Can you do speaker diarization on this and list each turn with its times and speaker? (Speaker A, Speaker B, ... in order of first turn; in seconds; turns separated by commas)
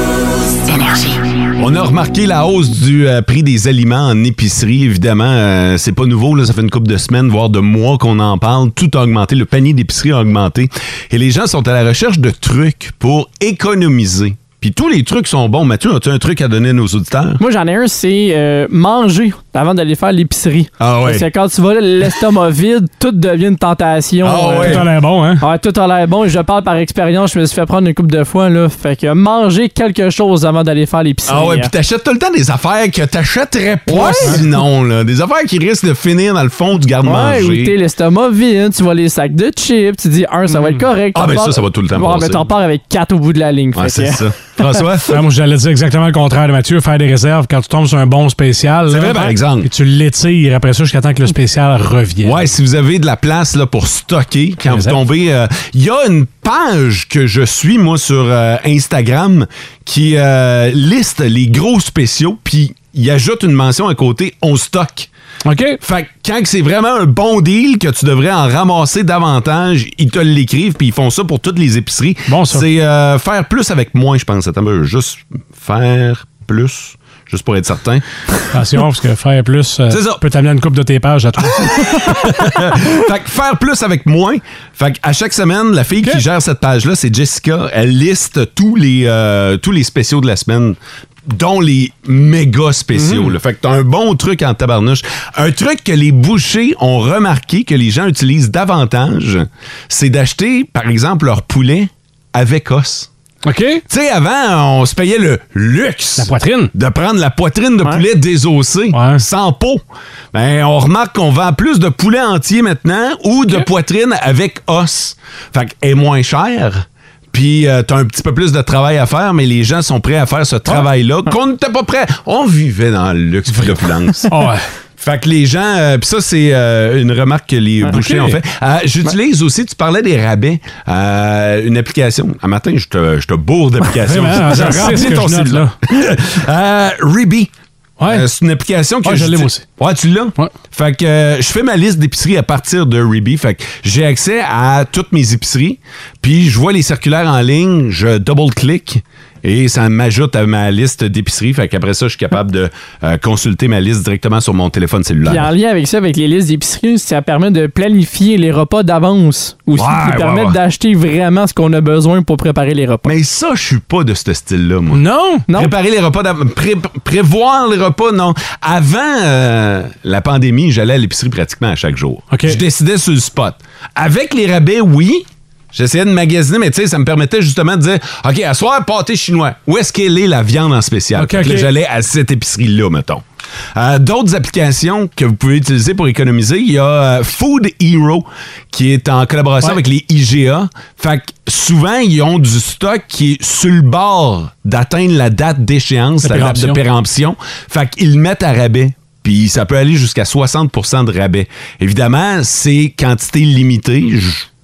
Speaker A: 1.6-17.4, Speaker B: 17.4-24.8, Speaker A: 20.8-21.2, Speaker A: 24.2-24.9, Speaker C: 24.6-25.4, Speaker B: 25.4-31.7, Speaker A: 31.3-37.7, Speaker B: 33.9-34.4, Speaker B: 37.0-44.2, Speaker A: 41.1-42.5, Speaker A: 43.7-45.2, Speaker C: 45.1-52.5, Speaker A: 48.9-49.7, Speaker A: 52.2-65.1, Speaker C: 54.7-55.0, Speaker C: 65.4-65.8, Speaker A: 65.8-78.5, Speaker C: 72.3-72.7, Speaker C: 78.5-82.4, Speaker A: 79.9-80.2, Speaker A: 81.5-103.1, Speaker C: 92.9-93.3, Speaker C: 103.4-103.8, Speaker A: 103.9-124.3, Speaker C: 106.2-106.7, Speaker C: 108.9-109.2, Speaker C: 123.6-124.6, Speaker A: 125.0-137.5, Speaker C: 127.9-128.4, Speaker C: 134.0-135.7, Speaker C: 138.0-138.3, Speaker A: 138.1-155.5, Speaker C: 139.0-139.6, Speaker B: 155.2-163.1, Speaker A: 159.7-160.6, Speaker A: 163.0-204.5, Speaker C: 164.9-165.4, Speaker C: 172.3-172.6, Speaker C: 181.2-181.7, Speaker C: 196.2-196.8